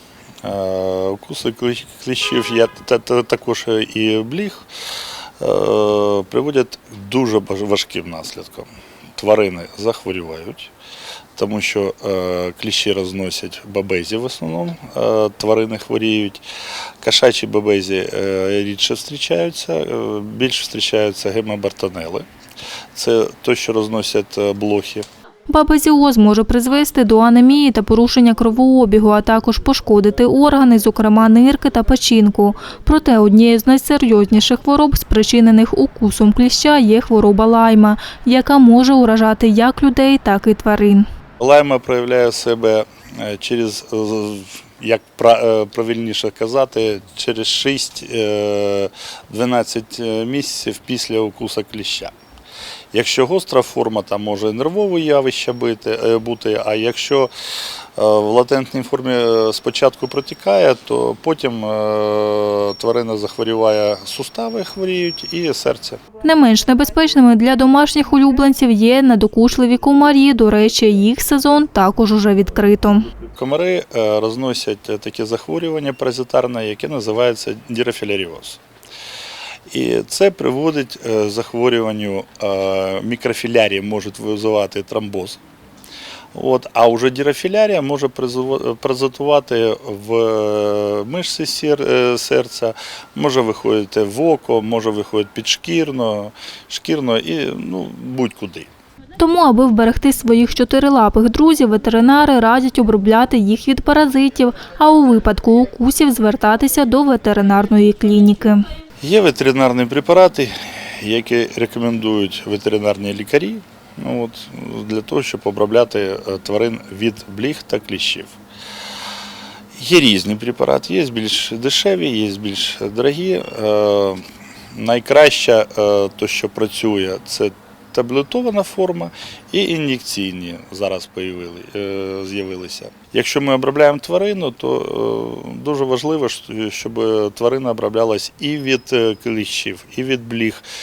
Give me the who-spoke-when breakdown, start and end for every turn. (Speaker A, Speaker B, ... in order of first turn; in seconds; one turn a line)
Speaker A: 0.4-4.7
Speaker A: 5.4-10.7
Speaker A: 11.3-16.4
Speaker A: 17.0-22.2
Speaker A: 22.9-25.1
Speaker B: 25.5-41.0
Speaker A: 41.4-52.1
Speaker A: 52.9-57.3
Speaker A: 58.0-66.0
Speaker B: 66.2-73.1
Speaker A: 73.3-78.6
Speaker A: 79.7-85.4
Speaker A: 86.3-98.7
Speaker B: 99.2-108.7
Speaker A: 109.0-118.3
Speaker A: 119.8-140.6